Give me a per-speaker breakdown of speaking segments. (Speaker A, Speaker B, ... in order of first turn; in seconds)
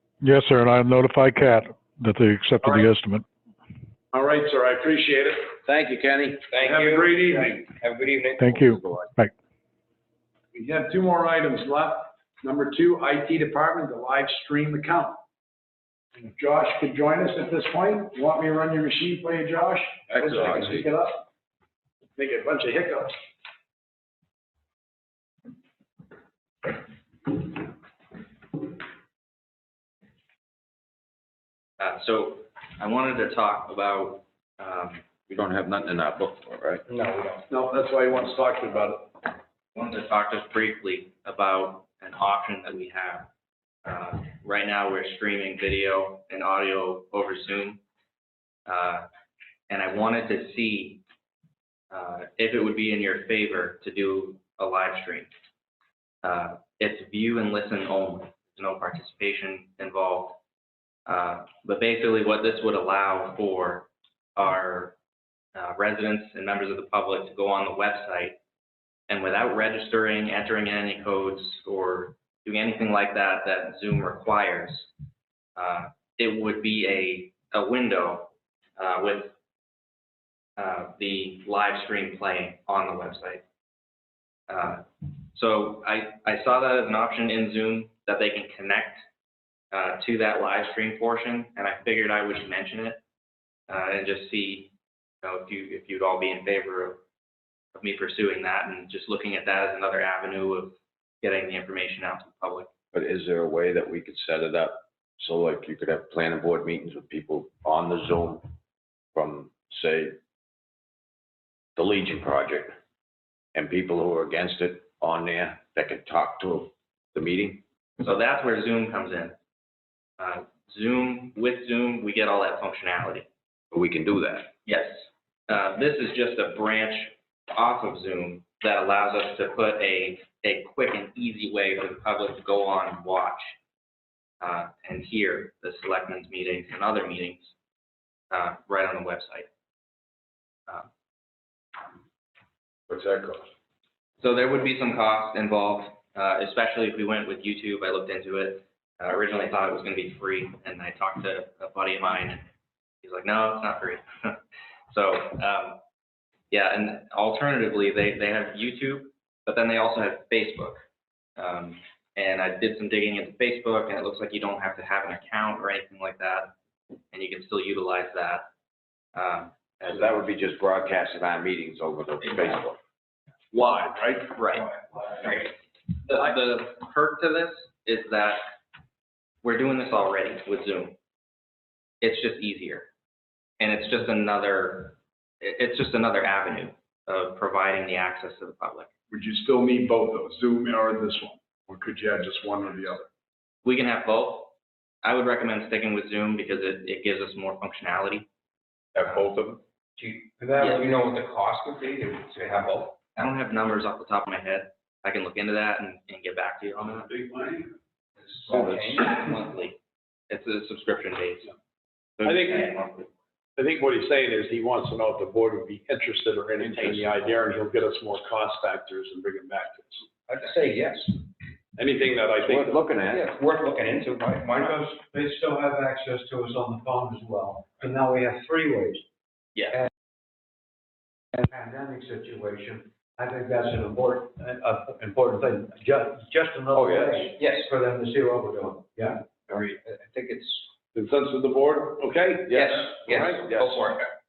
Speaker A: 0.2-3.2, 8.4-9.3
Speaker B: 2.6-2.9, 4.1-5.5, 6.6-7.6, 10.5-15.2, 16.1-21.2, 22.1-23.1, 37.5-39.2, 173.5-174.4, 189.1-193.1, 212.2-212.7, 213.6-220.0, 221.8-222.8, 240.9-242.6
Speaker C: 5.6-6.4, 20.1-20.9, 35.3-36.8, 102.9-108.5, 109.1-110.2, 111.8-112.7, 113.5-117.6, 123.7-124.5, 142.9-143.4, 169.8-172.8, 198.9-199.6, 208.5-209.0, 216.6-217.2, 222.4-223.3, 236.7-237.3, 242.5-243.9
Speaker D: 6.4-8.9, 36.9-37.4, 200.0-203.0, 208.4-209.2, 220.2-221.2, 223.1-224.8, 237.3-237.7, 239.5-240.7, 242.5-244.1
Speaker E: 31.8-35.0, 39.7-43.3, 43.8-47.8, 48.7-49.1, 49.7-51.0, 51.9-55.3, 56.2-60.4, 61.1-64.9, 65.5-68.4, 69.1-74.9, 75.5-79.3, 80.6-83.4, 84.5-89.0, 89.7-93.0, 93.7-94.7, 95.2-97.0, 97.7-102.7, 118.0-119.3, 120.2-123.3, 124.6-133.6, 134.4-137.5, 138.3-139.5, 144.2-152.4, 153.0-154.4, 154.9-155.8, 156.5-160.8, 161.4-166.5, 167.1-168.5, 169.1-170.2, 172.2-172.6, 174.3-175.5, 176.0-178.4, 179.4-180.9, 182.0-182.9, 183.6-188.9, 193.6-198.3, 200.6-200.9, 203.2-207.1, 208.8-209.8, 210.3-211.5, 212.2-213.1
Speaker F: 224.6-229.0, 231.3-239.2